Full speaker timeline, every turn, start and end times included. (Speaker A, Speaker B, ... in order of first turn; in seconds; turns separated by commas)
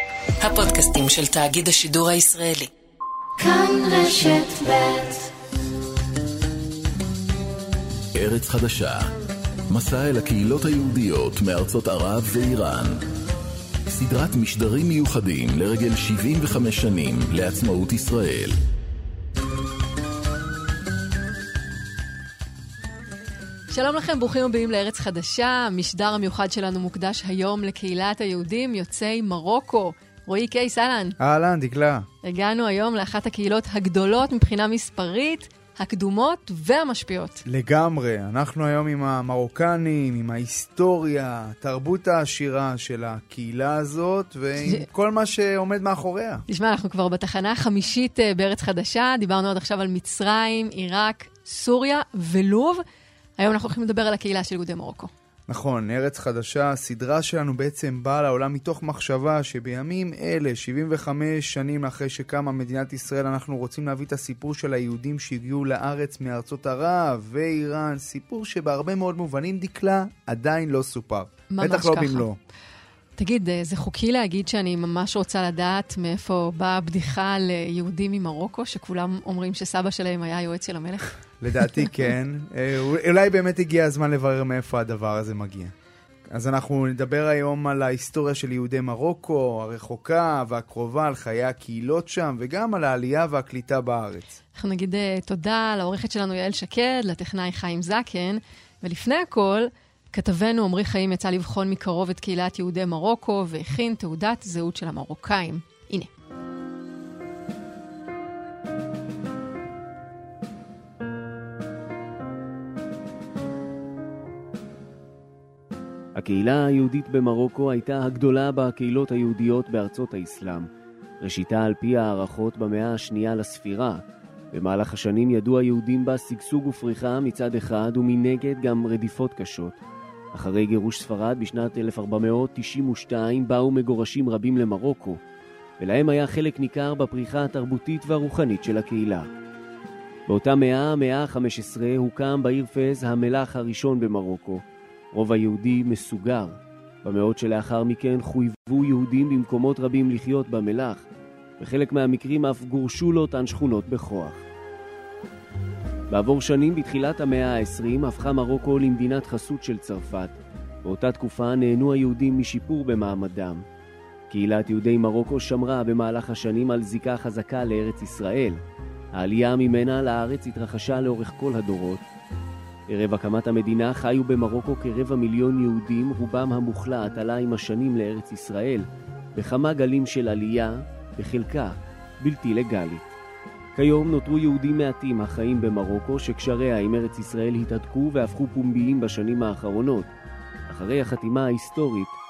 Speaker A: 0.4-2.7, Speaker B: 3.4-5.2, Speaker C: 8.1-9.1, Speaker C: 9.7-13.0, Speaker C: 13.9-18.6, Speaker B: 23.7-31.1, Speaker D: 31.2-32.0, Speaker B: 32.2-37.4, Speaker D: 37.5-46.4, Speaker B: 46.5-52.8, Speaker B: 53.4-55.1, Speaker D: 55.5-72.4, Speaker B: 71.5-72.2, Speaker B: 73.2-81.1, Speaker D: 81.4-85.7, Speaker D: 86.3-94.4, Speaker B: 94.5-106.1, Speaker E: 116.2-120.7, Speaker E: 121.2-124.0, Speaker E: 124.5-129.8, Speaker E: 130.3-135.2, Speaker E: 135.8-139.3, Speaker E: 140.3-151.1, Speaker E: 151.6-154.4, Speaker E: 156.1-163.6, Speaker E: 164.3-168.6, Speaker E: 169.2-172.0, Speaker E: 172.9-183.0, Speaker E: 183.8-190.1, Speaker E: 190.7-192.2